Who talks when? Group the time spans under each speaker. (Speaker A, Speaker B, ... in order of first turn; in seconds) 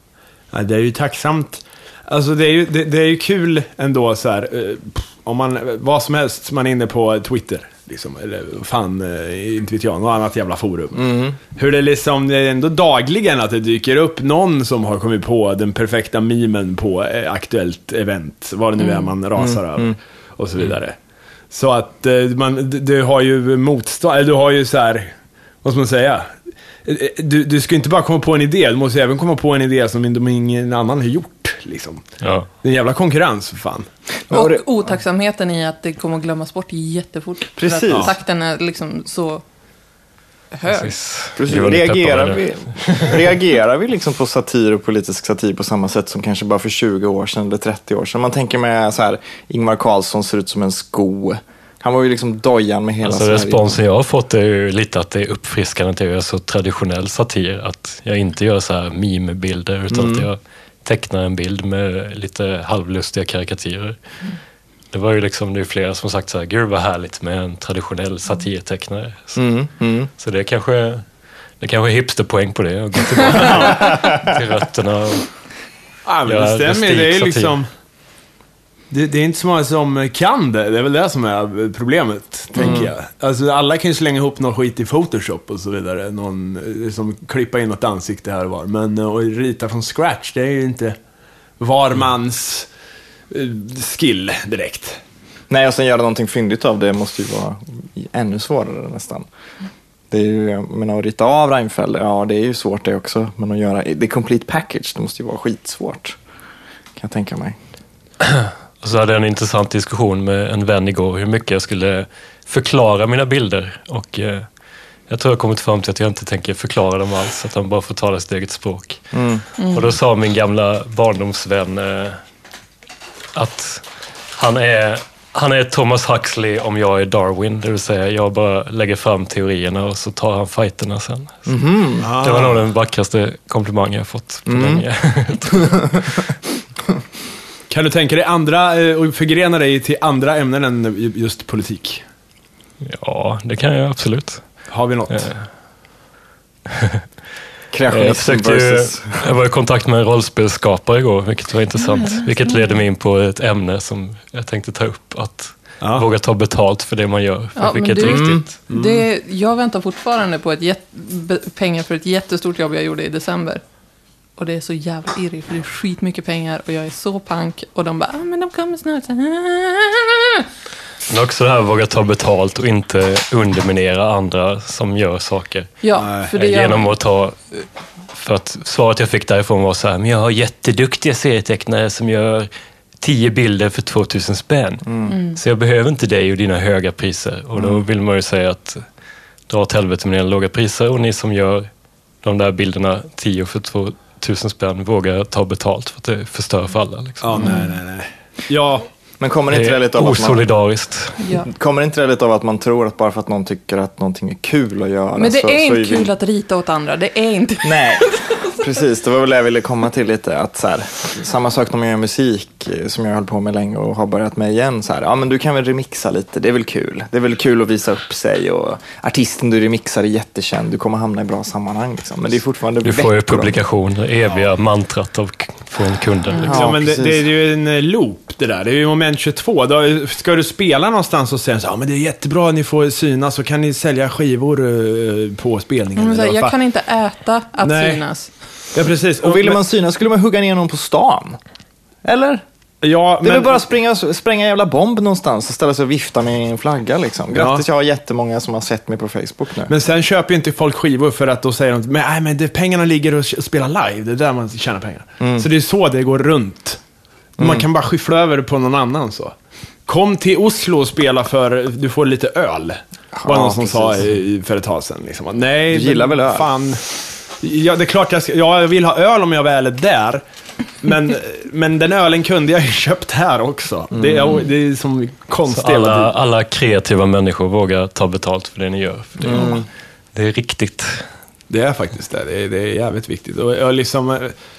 Speaker A: 0.5-21.0, 21.5-25.1, 25.6-26.3, 26.9-32.0, 32.6-33.9, 76.1-77.7, 78.9-91.0, 91.6-92.7, 93.3-95.0, 132.0-132.6, 137.7-142.0, 144.7-145.3, 155.8-156.1, 158.7-159.0, 176.0-176.3, 197.2-198.9, 226.5-236.5, 237.6-238.0, 238.7-239.6, 242.8-243.6, 247.3-247.7, 249.7-256.8, 257.4-259.3, 259.9-266.8, 267.4-270.2, 270.8-276.1, 281.5-284.3
Speaker B: 11.0-11.4, 19.4-19.9, 34.3-34.6, 37.6-38.1, 41.4-53.8, 59.9-60.3, 69.4-70.1, 73.7-74.2, 82.6-82.9, 95.5-99.3, 100.1-106.2, 107.0-107.6, 119.1-119.4, 131.5-132.1, 134.5-134.8, 135.6-136.0, 147.7-149.2, 158.0-158.5, 184.9-185.1, 187.6-187.8, 199.2-200.4, 201.4-206.1, 207.6-223.6, 226.4-227.2, 239.2-241.4, 242.0-242.4, 243.2-249.7, 255.2-255.5, 257.4-257.7, 263.1-264.0, 265.7-266.5, 273.9-274.4, 279.3-279.7
Speaker C: 18.8-19.1, 34.3-39.4, 40.5-40.9, 119.6-119.9, 151.8-152.7, 157.6-163.6, 164.4-170.4, 175.8-176.9, 185.1-185.4, 197.4-197.7, 201.2-201.5, 205.2-208.6, 236.0-238.3
Speaker D: 32.2-32.5, 40.7-43.2, 53.0-64.0, 64.9-69.4, 70.2-71.0, 71.6-75.3, 76.3-77.5, 108.2-114.5, 115.1-119.1, 119.7-122.2, 123.3-131.5, 132.2-136.3, 142.8-144.4, 145.1-145.4, 146.7-147.0, 147.9-158.5, 171.1-175.7, 176.2-188.8, 189.5-191.7, 192.2-197.6, 199.5-201.2, 222.8-226.7, 275.5-281.0